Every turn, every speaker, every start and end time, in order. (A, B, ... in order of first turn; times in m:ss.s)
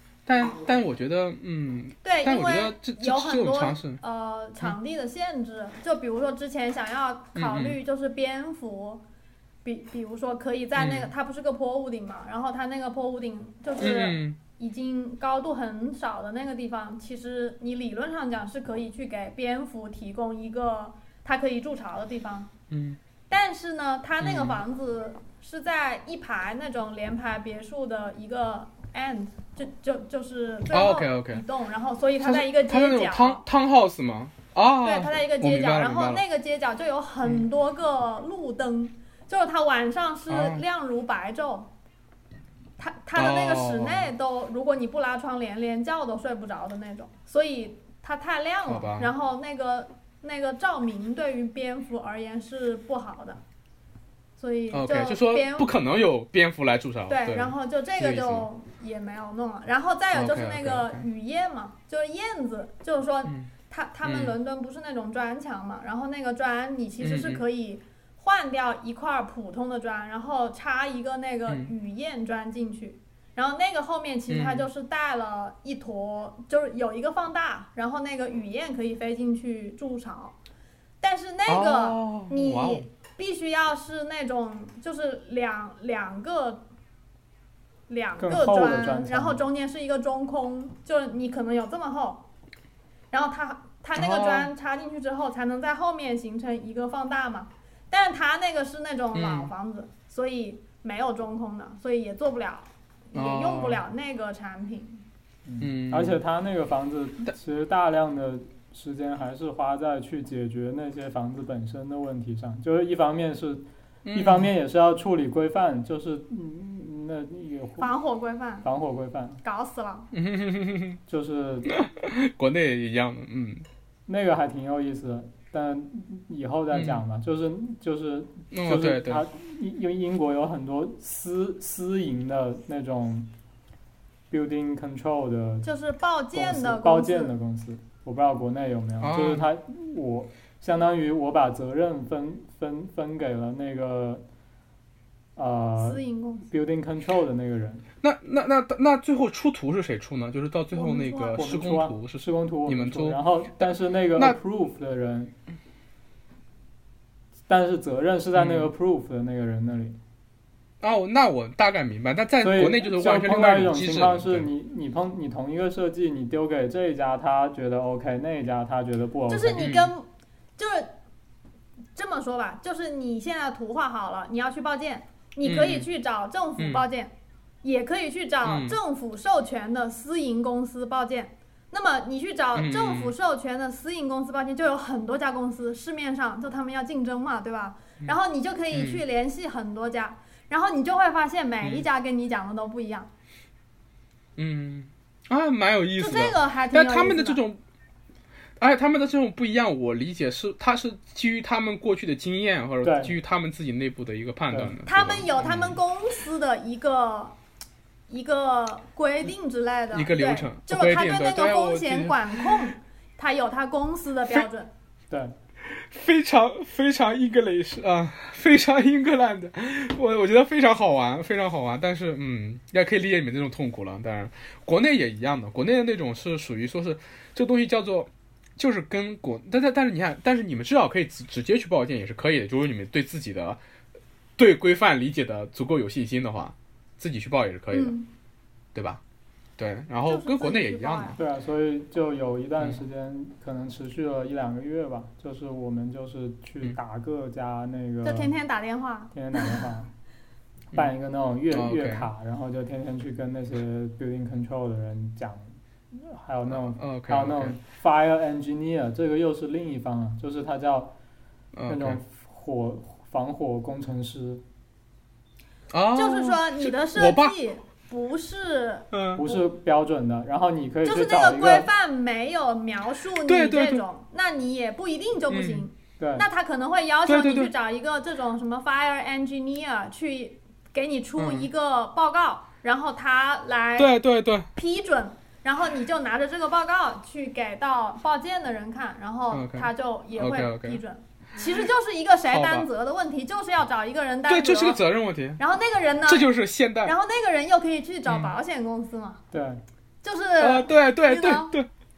0:00.3-0:04.0 A
0:02.0-0:09.0 B
0:07.4-0:07.8 A
0:09.6-0:22.5 B
0:10.8-0:11.1 A
0:13.8-0:14.4 A
0:22.7-0:23.0 A
0:23.3-0:33.4 B
0:24.2-0:24.6 A
0:30.7-0:31.4 A
0:32.2-0:36.2 A
0:34.8-0:41.7 B
0:40.3-0:40.6 A
0:42.8-0:53.4 B
0:43.2-0:44.1 A
0:48.7-0:49.1 A
0:54.4-0:55.7 B
0:54.7-0:58.5 A
0:57.1-1:20.4 B
1:00.1-1:01.1 A
1:03.2-1:03.5 A
1:04.0-1:04.4 A
1:07.0-1:07.4 A
1:14.3-1:14.7 A
1:21.0-1:26.6 B
1:21.5-1:22.9 A
1:27.9-1:32.2 B
1:28.2-1:29.4 C
1:33.1-1:45.0 B
1:33.9-1:34.5 A
1:39.1-1:39.5 A
1:43.1-1:43.8 A
1:45.5-1:57.9 C
1:45.6-1:46.2 A
1:54.0-1:54.5 A
1:57.8-1:58.6 B
1:58.6-1:59.4 C
1:59.4-2:00.1 B
2:00.1-2:01.0 A
2:01.1-2:01.8 C
2:01.7-2:03.6 A
2:04.1-2:13.3 C
2:06.7-2:07.0 A
2:08.5-2:09.2 A
2:14.3-2:15.7 C
2:15.6-2:17.3 B
2:16.3-2:24.2 C
2:19.0-2:19.5 A
2:25.4-2:27.9 C
2:25.8-2:26.5 B
2:28.0-2:33.2 A
2:30.7-2:31.4 B
2:31.3-2:35.4 C
2:37.5-2:40.0 C
2:38.4-2:38.7 A
2:40.8-2:44.5 A
2:42.4-2:49.7 C
2:49.3-2:50.1 B
2:49.6-2:49.9 A
2:50.6-2:50.9 B
2:52.0-2:57.1 B
2:55.4-2:55.9 A
2:56.6-2:56.8 A
2:57.6-3:13.1 B
2:58.4-2:58.8 A
3:02.6-3:03.2 A
3:08.7-3:09.0 A
3:14.4-3:17.6 A
3:16.0-3:17.4 B
3:18.6-3:25.8 A
3:22.8-3:23.2 C
3:24.5-3:24.8 C
3:24.9-3:27.4 B
3:28.1-3:34.7 B
3:29.9-3:32.7 A
3:35.8-3:53.6 A
3:54.4-3:58.0 A
3:57.7-3:58.1 B
3:58.8-3:59.0 A
3:59.6-4:01.2 A
4:00.1-4:01.2 B
4:01.2-4:08.3 C
4:08.0-4:09.5 B
4:09.1-4:09.9 C
4:10.7-4:21.0 C
4:11.5-4:12.1 A
4:16.8-4:17.6 A
4:21.5-4:22.0 A
4:21.7-4:24.4 C
4:25.7-4:27.4 A
4:26.0-4:29.4 B
4:28.9-4:29.2 A
4:29.2-4:31.7 C
4:30.8-4:43.9 B
4:33.3-4:33.8 A
4:35.3-4:35.7 A
4:36.0-4:36.3 C
4:37.1-4:37.5 A
4:41.2-4:41.5 A
4:43.8-4:44.5 A
4:44.6-4:54.8 B
4:49.3-4:50.8 A
4:52.3-4:52.7 A
4:54.3-4:55.4 A
4:55.4-4:56.3 B
4:56.0-4:56.9 A
4:56.8-4:59.2 B
4:58.1-4:58.3 A
4:59.3-4:59.6 C
5:00.0-5:01.5 B
5:00.4-5:01.7 A